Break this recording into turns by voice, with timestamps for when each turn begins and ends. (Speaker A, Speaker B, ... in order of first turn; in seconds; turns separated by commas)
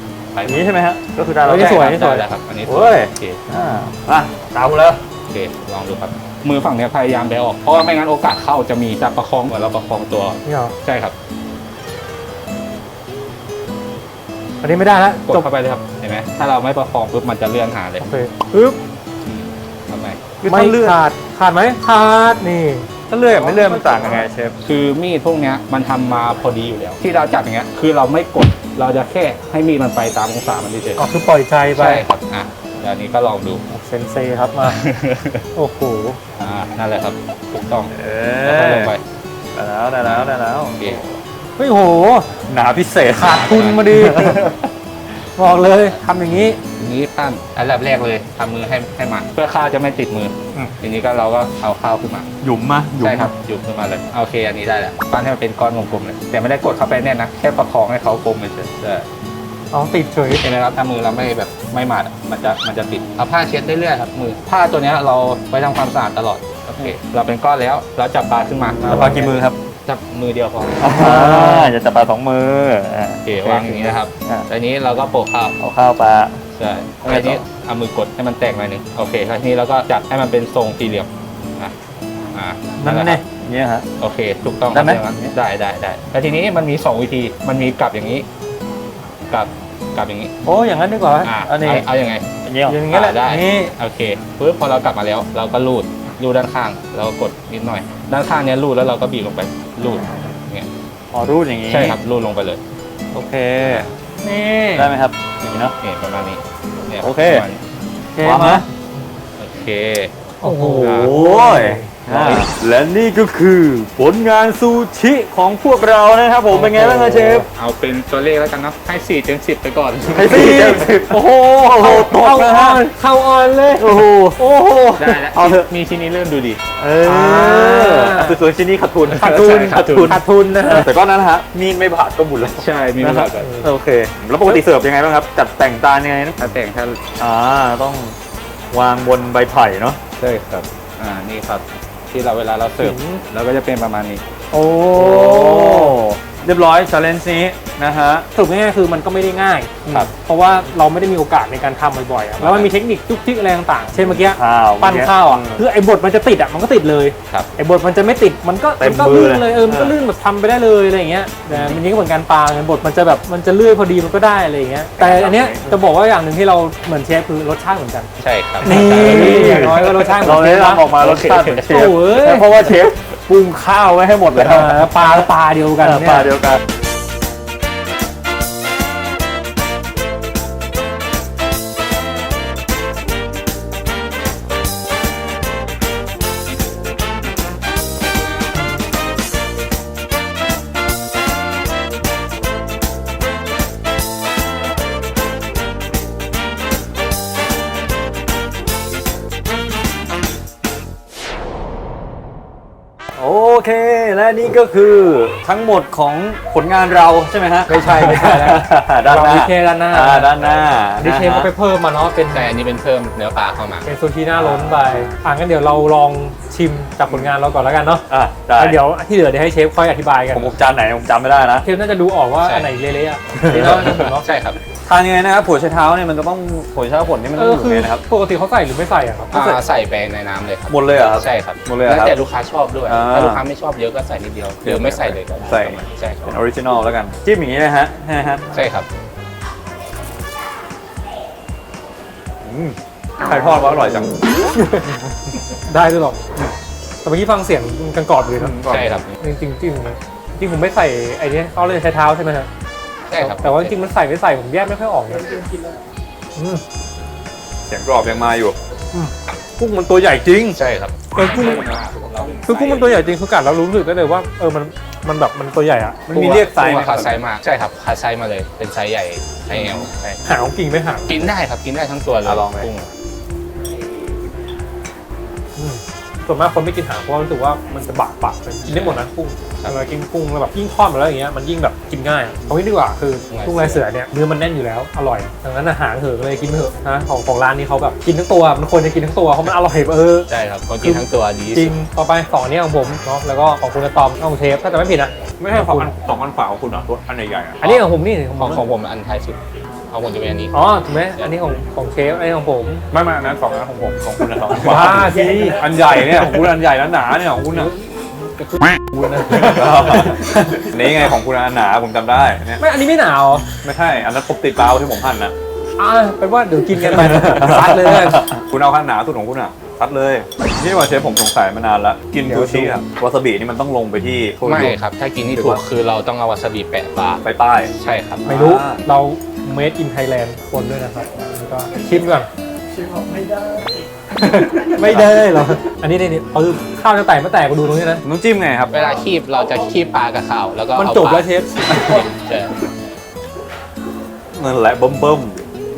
Speaker A: 0.3-0.6, Speaker B: 0.5-2.0, Speaker C: 1.4-2.2, Speaker A: 1.6-3.4, Speaker B: 2.7-5.0, Speaker A: 5.3-11.1, Speaker C: 10.4-10.8, Speaker C: 14.6-15.5, Speaker A: 15.2-18.1, Speaker C: 18.0-18.8, Speaker A: 19.2-20.2, Speaker B: 20.4-21.0, Speaker C: 20.5-24.2, Speaker B: 23.1-24.6, Speaker A: 24.6-31.1, Speaker C: 31.0-32.0, Speaker A: 31.7-33.6, Speaker C: 33.7-34.8, Speaker A: 34.6-35.5, Speaker C: 35.5-36.2, Speaker A: 36.4-37.9, Speaker B: 37.9-38.9, Speaker A: 38.4-39.0, Speaker B: 39.5-41.2, Speaker A: 40.0-41.0, Speaker C: 41.6-42.4, Speaker B: 42.5-44.7, Speaker C: 43.1-44.4, Speaker A: 43.3-43.8, Speaker C: 45.4-46.6, Speaker A: 46.8-52.3, Speaker B: 52.4-53.3, Speaker A: 53.0-59.1, Speaker C: 59.7-60.4, Speaker A: 60.4-71.0, Speaker B: 68.9-69.6, Speaker B: 70.8-74.5, Speaker C: 71.0-71.7, Speaker A: 73.2-75.6, Speaker B: 75.6-76.4, Speaker A: 76.5-81.7, Speaker B: 77.0-77.4, Speaker A: 82.3-83.2, Speaker C: 82.8-83.2, Speaker B: 83.3-83.9, Speaker A: 84.0-88.3, Speaker B: 84.7-85.3, Speaker A: 89.3-90.3, Speaker C: 90.5-91.3, Speaker A: 91.2-92.3, Speaker B: 91.5-91.8, Speaker B: 92.4-92.8, Speaker C: 92.7-93.7, Speaker A: 92.9-100.7, Speaker B: 101.1-102.0, Speaker A: 101.7-102.6, Speaker B: 103.1-103.9, Speaker A: 103.6-103.9, Speaker C: 104.2-104.9, Speaker B: 104.7-105.7, Speaker A: 105.8-107.6, Speaker B: 107.0-107.5, Speaker C: 108.2-108.7, Speaker B: 108.2-108.6, Speaker A: 109.4-110.1, Speaker C: 110.4-111.9, Speaker B: 110.4-117.5, Speaker A: 110.7-111.1, Speaker A: 112.1-112.5, Speaker C: 116.5-117.5, Speaker A: 117.5-120.8, Speaker B: 120.1-122.8, Speaker C: 120.2-121.1, Speaker C: 121.8-124.1, Speaker B: 123.8-125.7, Speaker A: 125.0-126.6, Speaker B: 126.8-136.4, Speaker C: 127.0-128.4, Speaker A: 129.1-130.2, Speaker C: 129.2-130.9, Speaker A: 132.5-133.5, Speaker C: 133.4-133.7, Speaker A: 136.4-137.0, Speaker B: 137.2-138.2, Speaker B: 138.7-140.0, Speaker A: 140.2-144.2, Speaker C: 142.8-143.2, Speaker C: 144.5-146.0, Speaker B: 144.9-148.3, Speaker C: 148.3-168.1, Speaker A: 152.4-152.7, Speaker B: 154.1-155.6, Speaker B: 158.8-160.0, Speaker B: 161.5-161.8, Speaker B: 165.0-165.8, Speaker A: 168.2-169.7, Speaker B: 168.6-174.9, Speaker C: 168.6-170.9, Speaker A: 171.0-171.7, Speaker C: 171.7-172.5, Speaker C: 174.3-176.3, Speaker B: 175.8-176.6, Speaker B: 203.2-211.5, Speaker C: 207.7-210.4, Speaker C: 211.0-212.5, Speaker A: 212.3-213.9, Speaker C: 213.9-220.5, Speaker B: 214.4-214.9, Speaker A: 214.8-215.0, Speaker B: 217.1-217.3, Speaker B: 218.1-218.8, Speaker B: 220.3-221.7, Speaker C: 221.6-224.3, Speaker A: 222.4-222.7, Speaker B: 223.4-224.1, Speaker A: 223.6-224.6, Speaker B: 224.9-228.0, Speaker C: 227.4-229.6, Speaker A: 229.3-236.3, Speaker B: 230.7-232.2, Speaker B: 232.9-233.4, Speaker B: 234.6-238.4, Speaker A: 238.5-238.9, Speaker B: 242.4-244.2, Speaker C: 243.4-244.0, Speaker C: 244.6-244.9, Speaker C: 245.7-246.2, Speaker C: 247.0-248.6, Speaker B: 248.4-249.0, Speaker A: 248.7-249.2, Speaker C: 249.2-252.5, Speaker A: 253.1-253.7, Speaker C: 253.2-255.3, Speaker C: 256.4-256.6, Speaker B: 257.7-258.6, Speaker C: 258.9-260.6, Speaker A: 260.5-263.1, Speaker C: 261.1-261.7, Speaker C: 262.5-266.3, Speaker B: 266.1-267.2, Speaker A: 266.2-270.2, Speaker B: 269.5-269.9, Speaker C: 270.2-271.3, Speaker A: 271.1-272.9, Speaker B: 272.2-272.7, Speaker C: 275.6-290.3, Speaker A: 278.7-279.0, Speaker A: 283.3-283.8, Speaker A: 290.3-291.7, Speaker C: 290.8-295.9, Speaker B: 295.4-297.6, Speaker C: 297.6-298.6, Speaker A: 298.4-299.4, Speaker A: 299.9-300.6, Speaker C: 300.5-302.8, Speaker B: 302.9-307.7, Speaker A: 303.0-303.9, Speaker A: 304.5-305.0, Speaker C: 304.5-306.4, Speaker C: 307.5-310.9, Speaker B: 309.3-312.6, Speaker C: 312.6-313.4, Speaker B: 313.6-315.3, Speaker C: 315.8-318.3, Speaker B: 316.8-325.6, Speaker C: 322.3-322.8, Speaker A: 324.4-328.3, Speaker B: 327.2-327.7, Speaker B: 328.2-328.8, Speaker C: 328.3-332.3, Speaker B: 332.8-333.6, Speaker C: 334.2-338.0, Speaker B: 334.2-335.3, Speaker B: 338.0-338.8, Speaker A: 338.7-342.5, Speaker C: 340.8-342.1, Speaker B: 341.7-342.0, Speaker B: 344.3-345.4